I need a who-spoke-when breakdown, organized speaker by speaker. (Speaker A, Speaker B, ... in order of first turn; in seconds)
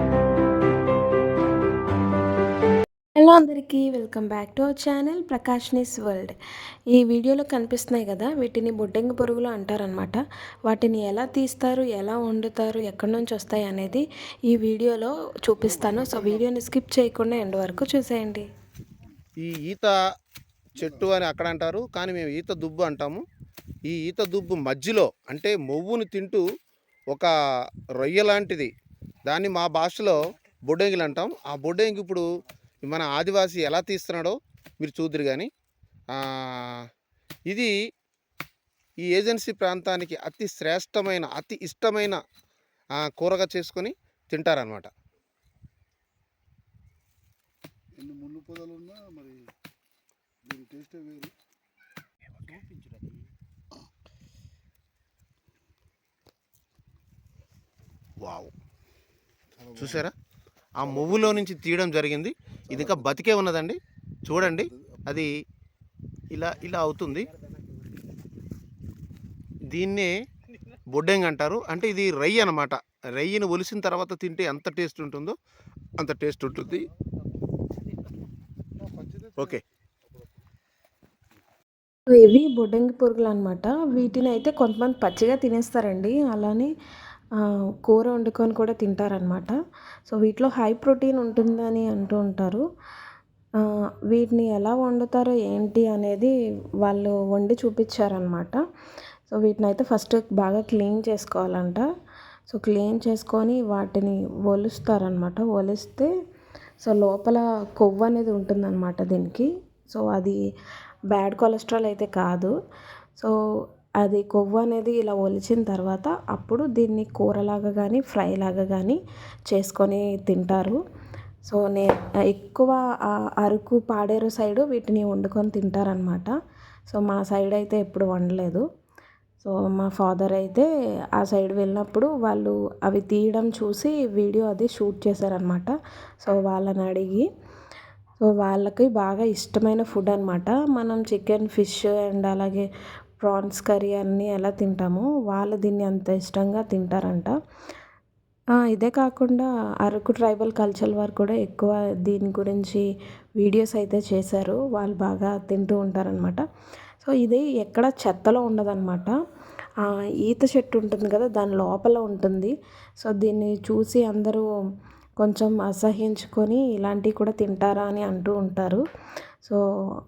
Speaker A: 3.2-6.3, 6.9-18.5, 82.1-86.7, 87.4-89.6, 90.1-92.6, 93.6-98.6, 99.3-101.9, 102.5-106.1, 106.8-110.4, 111.1-112.5, 114.0-120.8, 121.5-126.3, 126.9-128.7, 129.4-130.7, 131.2-137.3, 138.2-142.7, 143.2-147.3, 148.7-152.9, 153.4-156.4, 157.0-159.2, 159.8-164.5, 165.2-168.8
Speaker B: 19.4-19.9, 20.8-23.2, 23.9-26.4, 28.0-28.7, 29.3-32.3, 32.8-35.5, 36.1-36.9, 39.0-42.2, 43.0-44.9, 58.2-58.5, 59.8-60.1, 60.8-65.3, 66.3-67.3, 69.7-70.1, 70.9-75.4, 76.0-76.9
Speaker C: 48.0-49.5, 50.5-51.3, 59.6-59.9, 78.8-79.6